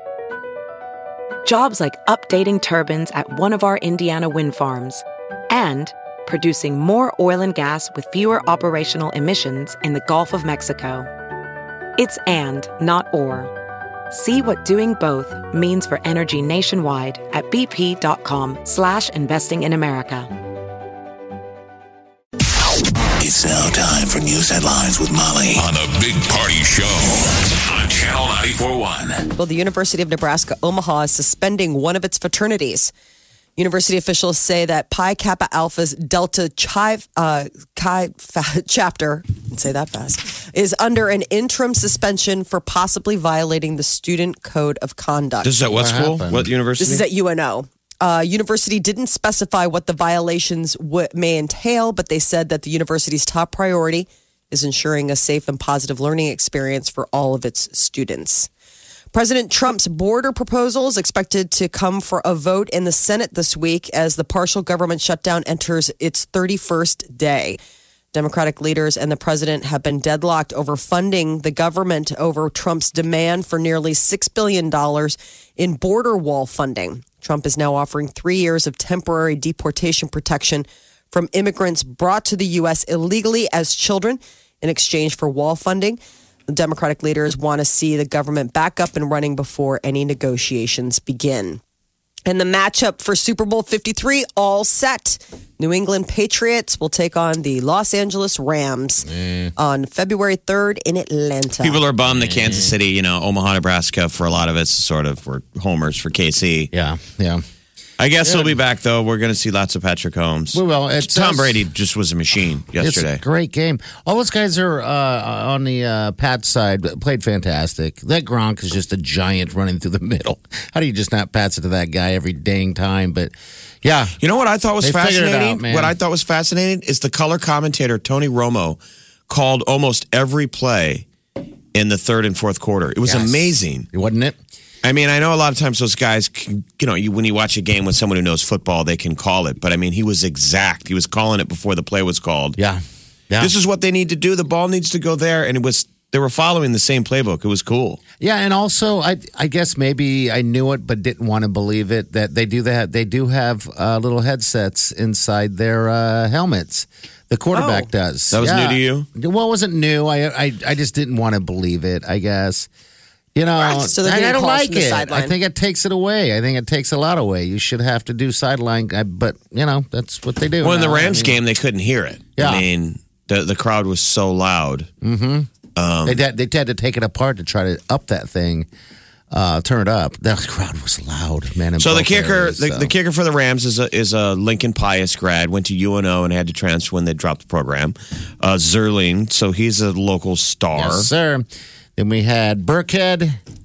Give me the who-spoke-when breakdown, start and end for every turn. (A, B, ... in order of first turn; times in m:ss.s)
0:01.4-0:11.1 A
0:12.0-0:13.5 A
0:14.1-0:20.3 A
0:23.2-0:29.2 B
0:29.4-0:32.9 C
0:33.6-0:45.5 C
0:45.4-0:47.0 D
0:45.7-0:46.5 E
0:46.8-0:58.5 C
0:59.1-1:07.6 C
1:08.1-1:31.6 C
1:32.3-1:41.8 C
1:39.1-1:39.5 E
1:41.6-1:46.7 D
1:42.1-1:42.8 E
1:46.7-1:47.4 E
1:48.0-1:53.2 D
1:48.2-1:48.6 E
1:50.5-1:51.6 E
1:52.8-2:04.2 E
2:04.2-2:11.1 D
2:04.8-2:06.0 E
2:11.7-2:13.9 D
2:13.0-2:14.4 E
2:14.8-2:22.6 D
2:22.6-2:23.5 E
2:23.4-2:28.0 D
2:28.2-2:42.7 E
2:37.5-2:37.9 C
2:38.3-2:39.1 D
2:43.3-2:51.4 E
2:43.6-2:45.3 C
2:50.6-2:54.9 D
2:52.4-2:52.7 E
2:55.0-2:55.5 E
2:55.8-2:56.2 D
2:56.0-2:58.7 E
2:59.3-3:02.9 E
3:01.8-3:11.1 D
3:10.8-3:13.4 E